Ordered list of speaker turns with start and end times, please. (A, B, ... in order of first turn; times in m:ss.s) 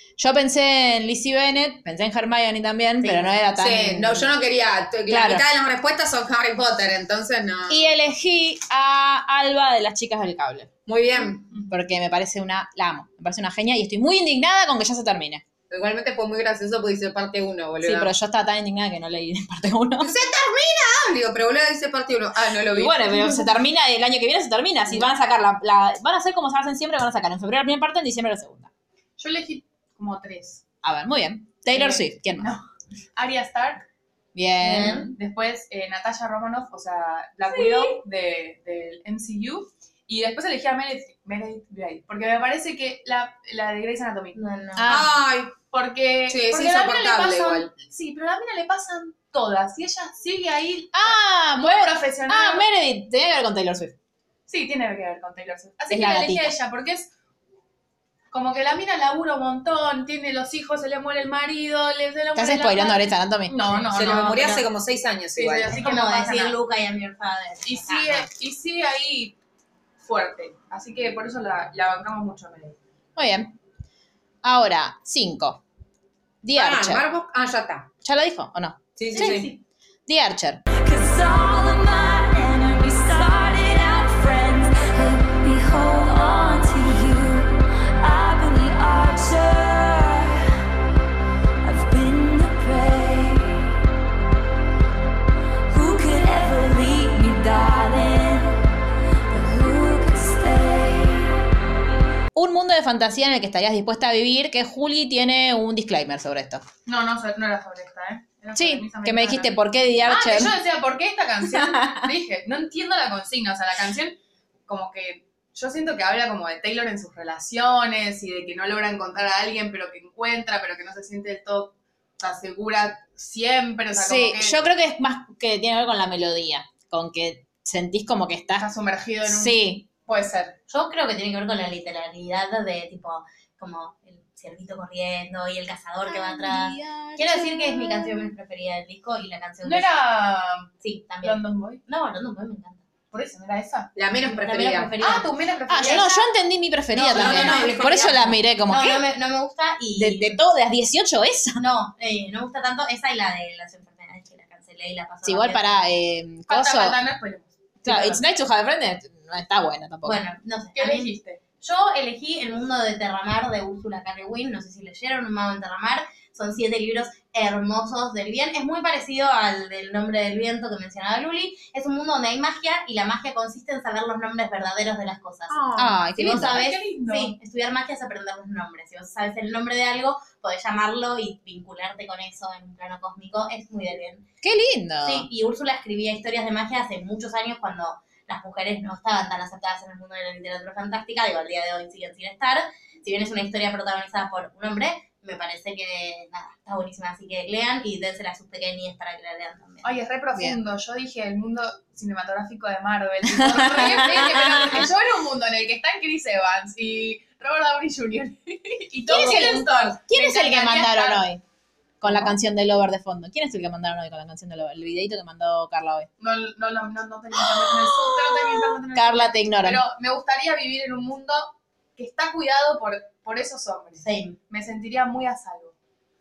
0:00.2-0:04.3 A
0:03.0-0:03.4 B
0:03.6-0:07.9 C
0:05.1-0:05.4 A
0:07.7-0:10.7 A
0:10.8-0:11.5 C
0:11.7-0:15.4 A
0:15.7-0:18.1 C
0:17.8-0:20.1 A
0:20.0-0:23.3 C
0:22.7-0:28.7 A
0:29.2-0:30.6 D
0:30.8-0:32.5 A
0:31.7-0:32.6 D
0:33.2-0:33.8 D
0:34.3-0:35.1 A
0:34.6-0:35.1 B
0:35.1-0:44.4 D
0:37.5-0:38.0 B
0:44.3-0:44.9 B
0:44.8-0:45.1 A
0:44.8-0:45.6 C
0:45.7-0:52.6 D
0:46.3-0:47.7 C
0:50.9-0:54.0 A
0:54.5-0:57.1 D
0:55.9-0:56.5 A
0:58.3-1:04.6 D
1:02.3-1:03.8 A
1:03.9-1:05.8 C
1:03.9-1:04.6 B
1:05.3-1:06.5 D
1:05.7-1:08.3 B
1:07.6-1:09.3 D
1:10.0-1:12.8 D
1:13.2-1:13.5 A
1:14.4-1:15.6 A
1:16.4-1:17.0 A
1:16.6-1:17.9 C
1:18.0-1:19.5 A
1:19.0-1:19.5 C
1:19.1-1:19.6 B
1:20.1-1:20.6 A
1:20.8-1:30.5 E
1:31.6-1:33.8 E
1:35.7-1:38.6 E
1:39.3-1:41.4 E
1:42.3-1:46.6 A
1:46.8-2:04.6 D
1:48.5-1:50.6 A
1:51.4-1:52.1 A
2:03.9-2:08.7 A
2:08.6-2:10.6 D
2:09.2-2:09.9 A
2:10.7-2:19.9 B
2:16.0-2:18.3 A
2:19.6-2:20.7 D
2:20.8-2:22.8 B
2:21.2-2:21.8 D
2:23.1-2:23.9 D
2:23.9-2:24.9 C
2:24.3-2:25.3 B
2:25.0-2:26.3 D
2:25.7-2:29.0 A
2:25.8-2:26.1 B
2:26.9-2:28.0 D
2:27.0-2:28.4 C
2:28.7-2:30.4 B
2:30.0-2:31.6 A
2:31.6-2:35.8 B
2:35.2-2:37.0 A
2:36.5-2:38.2 D
2:37.8-2:40.2 A
2:40.0-3:04.2 B
2:40.7-2:41.4 D
2:55.5-2:55.9 C
2:55.8-2:56.6 A
2:56.2-2:57.3 D
3:04.4-3:05.3 A
3:05.0-3:20.0 B
3:19.8-3:31.2 D
3:23.3-3:24.9 A
3:29.1-3:31.4 A
3:29.2-3:29.5 C
3:32.0-3:36.1 A
3:32.1-3:32.3 D
3:36.2-3:45.8 D
3:37.3-3:39.8 A
3:44.0-3:44.4 B